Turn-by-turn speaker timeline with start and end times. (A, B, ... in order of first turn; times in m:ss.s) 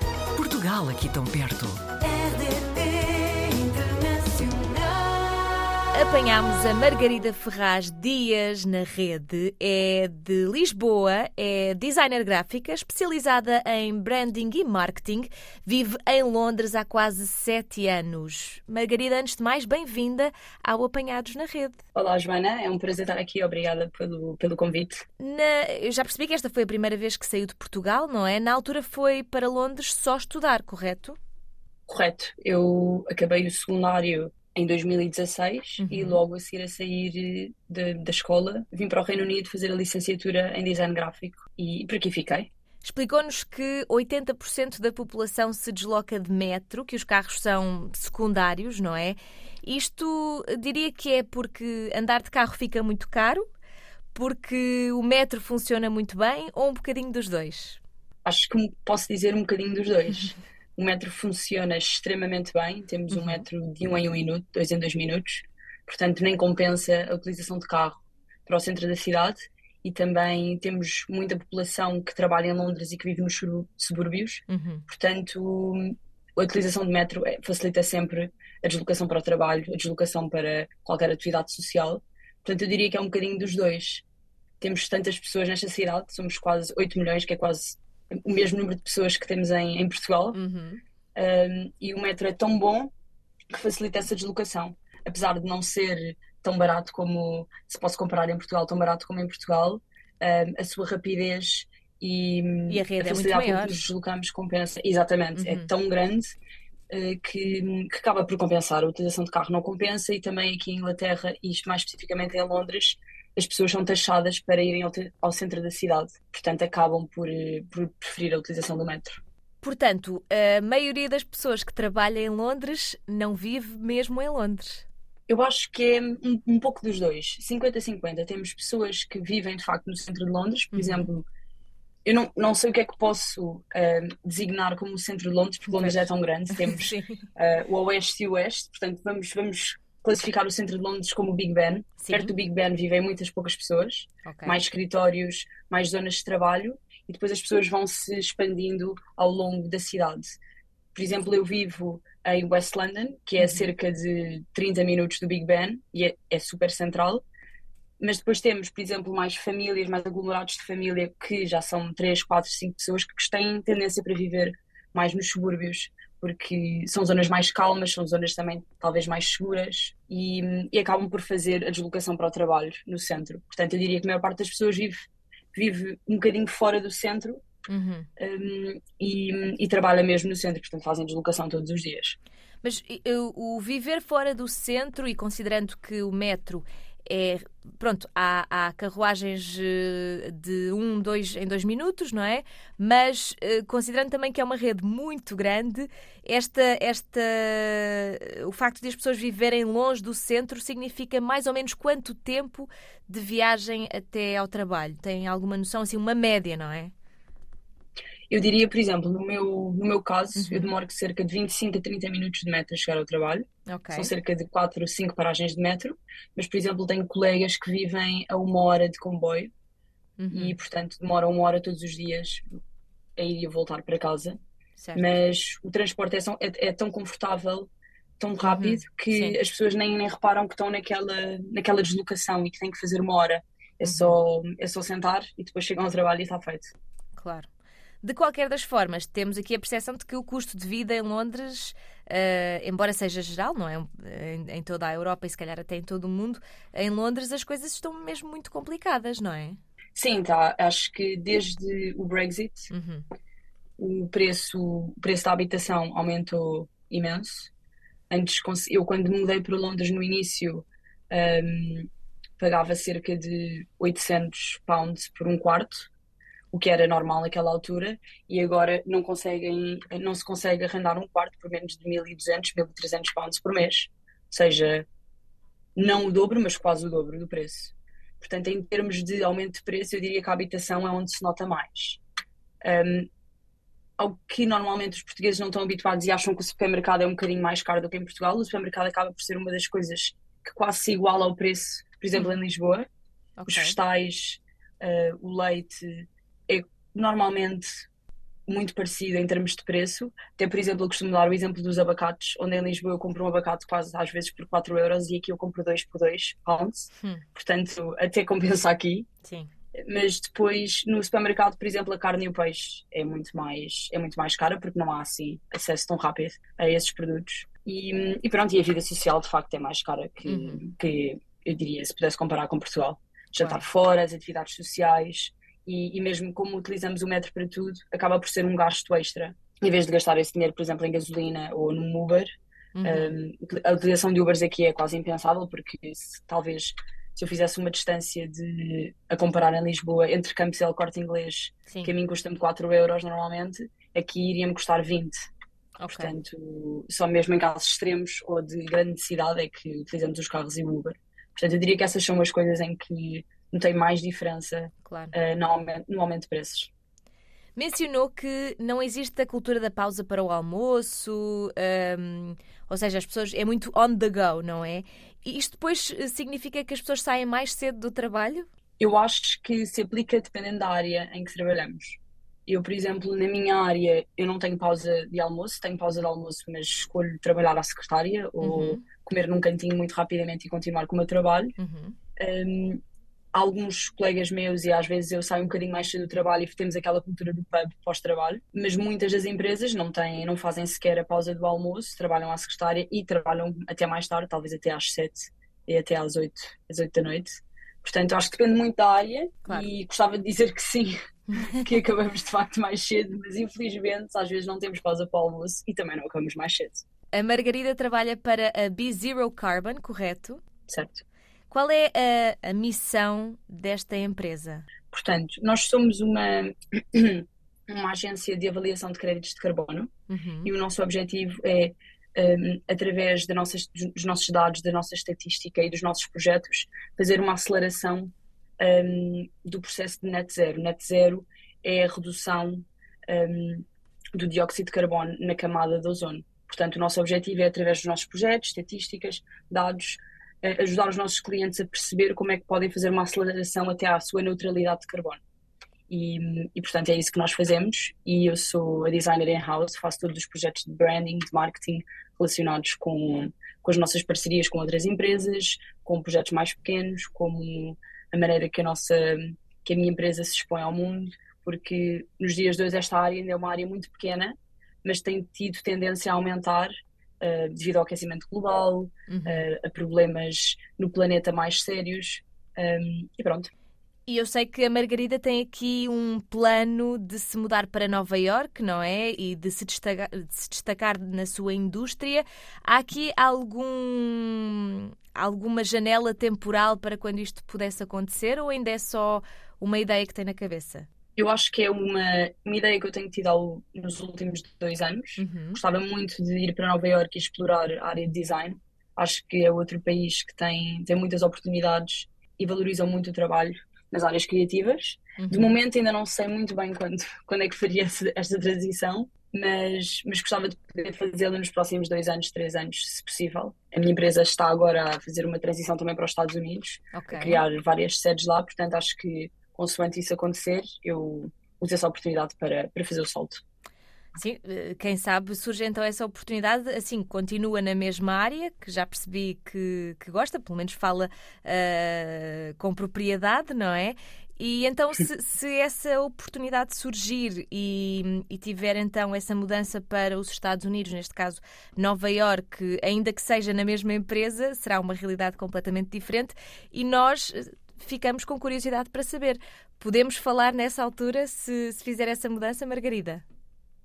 0:00.4-0:05.6 A
0:05.9-0:21.8 B
0:22.0-0:25.0 C
0:25.2-0:31.2 B
0:31.9-0:42.5 C
0:35.8-0:36.2 B
0:42.8-0:53.4 B
0:54.1-0:57.8 B
0:58.2-1:24.0 C
1:03.1-1:03.4 B
1:14.5-1:14.8 B
1:24.6-1:30.4 C
1:30.3-1:30.8 B
1:31.2-1:32.9 C
1:33.5-1:46.3 C
1:42.7-1:43.9 B
1:45.4-1:45.7 B
1:46.9-1:59.2 C
1:59.6-2:04.8 B
2:05.3-2:11.3 C
2:10.7-2:11.1 B
2:12.0-2:30.4 C
2:15.7-2:17.2 B
2:22.0-2:22.3 B
2:24.2-2:24.6 B
2:30.9-2:37.2 C
2:33.4-2:33.7 B
2:38.0-2:57.4 C
2:57.7-2:58.1 B
2:58.2-3:02.2 C
3:02.6-3:26.9 B
3:28.3-3:39.5 C
3:30.4-3:30.7 B
3:33.7-3:34.1 B
3:40.2-3:40.5 B
3:40.3-3:42.4 C
3:43.2-3:44.4 C
3:44.8-3:45.2 B
3:44.9-3:56.7 C
3:48.4-3:49.4 B
3:53.8-3:54.2 B
3:57.2-3:57.5 B
3:58.0-4:09.6 B
4:09.9-4:12.7 C
4:12.7-4:13.0 B
4:13.8-4:17.5 C
4:18.1-4:25.9 C
4:26.5-4:34.9 C
4:35.7-4:42.0 C
4:42.6-4:43.1 C
4:44.0-4:52.9 C
4:53.4-4:53.8 B
4:53.5-4:57.7 C
4:58.5-5:09.1 C
5:09.2-5:09.5 B
5:09.7-5:32.3 C
5:20.2-5:20.6 B
5:32.7-5:33.2 B
5:32.8-5:45.2 C
5:41.7-5:41.9 B
5:45.8-5:46.1 B
5:45.9-5:56.7 C
5:54.8-5:55.1 B
5:57.6-6:08.5 B
6:08.8-6:21.6 C
6:18.4-6:18.8 B
6:21.6-6:22.0 B
6:22.2-6:22.8 C
6:23.3-6:46.8 C
6:47.1-6:50.4 B
6:50.7-6:51.0 C
6:51.5-6:54.6 B
6:54.9-6:59.9 C
7:00.1-7:00.5 B
7:00.4-7:25.2 C
7:25.9-7:53.5 C
7:49.1-7:49.5 B
7:54.1-8:10.9 B
8:11.2-8:43.4 C
8:15.2-8:15.6 B
8:25.2-8:25.6 B
8:36.9-8:37.4 B
8:44.1-9:13.2 B